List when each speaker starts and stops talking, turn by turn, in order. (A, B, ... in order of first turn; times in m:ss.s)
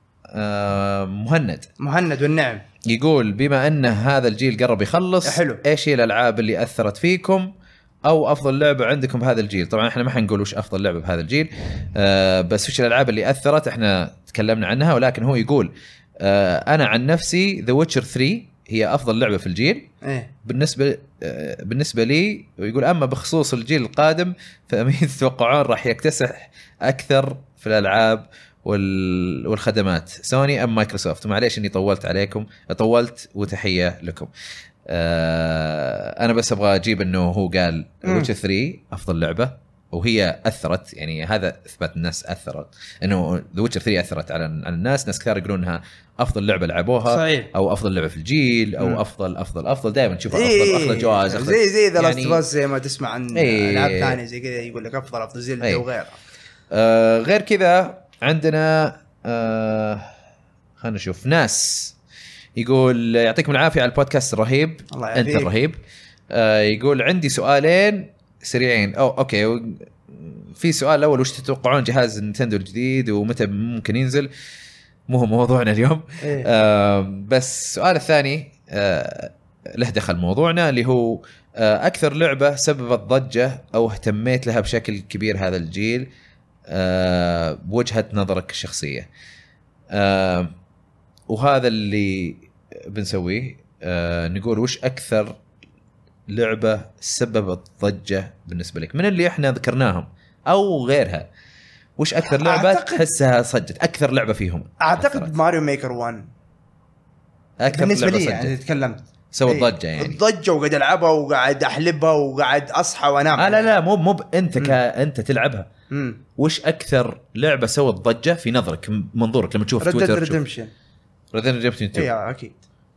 0:00.3-0:01.7 A
0:01.8-0:02.6 B
0:02.8-0:07.5 A
0:05.2-0:05.6 B
0:08.0-0:19.9 A
0:20.0-0:20.3 B
0:20.4-0:34.3 A
0:34.8-0:52.4 A
0:38.0-0:38.3 B
0:47.1-0:47.5 B
0:50.3-0:56.2 B
0:53.3-0:54.2 A
0:56.7-1:00.1 A
1:00.8-1:02.0 A
1:02.6-1:05.8 A
1:04.9-1:05.5 B
1:06.3-1:14.3 A
1:15.1-1:26.1 A
1:16.2-1:16.5 B
1:26.7-1:29.1 A
1:29.9-1:30.5 A
1:31.3-1:35.4 A
1:36.3-1:41.3 A
1:42.0-1:45.3 A
1:42.4-1:43.0 B
1:44.8-1:46.2 B
1:47.6-1:48.5 A
1:47.7-1:53.7 B
1:49.3-1:50.2 A
1:53.4-1:55.7 A
1:55.9-1:56.2 B
1:56.4-2:00.4 A
1:59.8-2:00.7 B
2:01.3-2:02.1 A
2:01.9-2:02.6 B